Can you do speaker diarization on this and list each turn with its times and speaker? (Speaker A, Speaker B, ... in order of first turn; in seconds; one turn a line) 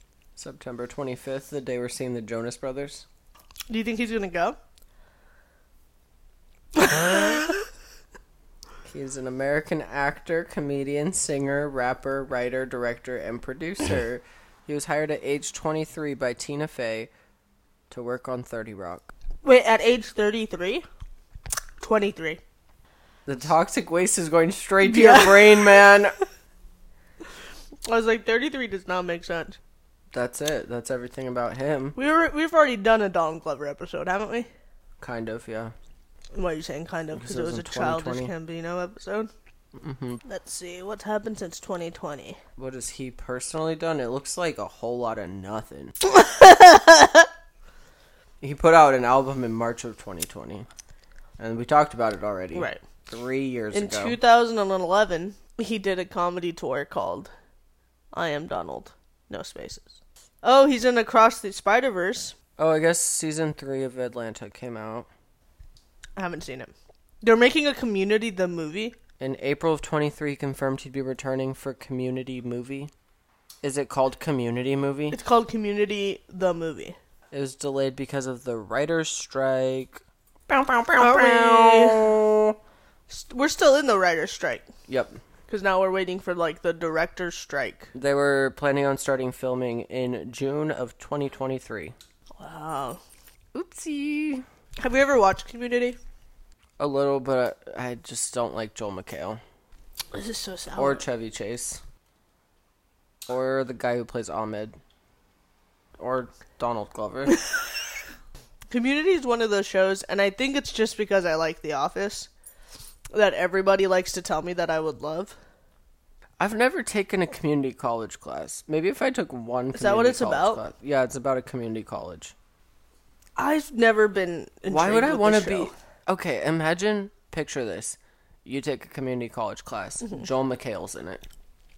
Speaker A: 0.4-3.0
Speaker B: 3.7-4.6
Speaker B: 6.8-7.4
Speaker A: 8.8-17.1
Speaker A: 17.9-19.1
Speaker B: 19.4-20.8
Speaker B: 21.8-22.4
Speaker A: 23.2-26.1
Speaker B: 24.8-25.7
Speaker B: 27.9-29.6
Speaker A: 30.1-31.9
Speaker B: 31.9-34.5
Speaker A: 35.0-35.7
Speaker B: 36.3-39.3
Speaker A: 37.1-38.3
Speaker A: 39.8-40.2
Speaker B: 40.2-42.4
Speaker A: 42.6-45.9
Speaker B: 46.0-47.3
Speaker A: 48.4-50.7
Speaker A: 51.4-54.2
Speaker B: 52.5-52.8
Speaker B: 53.7-57.3
Speaker B: 58.1-62.3
Speaker A: 62.6-65.1
Speaker B: 66.2-69.0
Speaker A: 69.2-72.9
Speaker A: 73.6-75.2
Speaker B: 75.1-77.0
Speaker A: 77.3-82.6
Speaker B: 81.0-82.1
Speaker B: 83.1-84.7
Speaker A: 84.9-85.2
Speaker B: 85.5-87.9
Speaker A: 87.9-91.9
Speaker B: 92.4-93.0
Speaker A: 93.5-94.4
Speaker B: 94.8-96.0
Speaker A: 96.8-99.4
Speaker B: 100.1-101.0
Speaker A: 100.8-101.8
Speaker A: 103.3-104.8
Speaker A: 106.0-107.4
Speaker B: 108.7-112.3
Speaker B: 113.1-115.3
Speaker A: 116.4-122.3
Speaker B: 119.7-120.6
Speaker B: 123.4-125.7
Speaker A: 124.7-131.2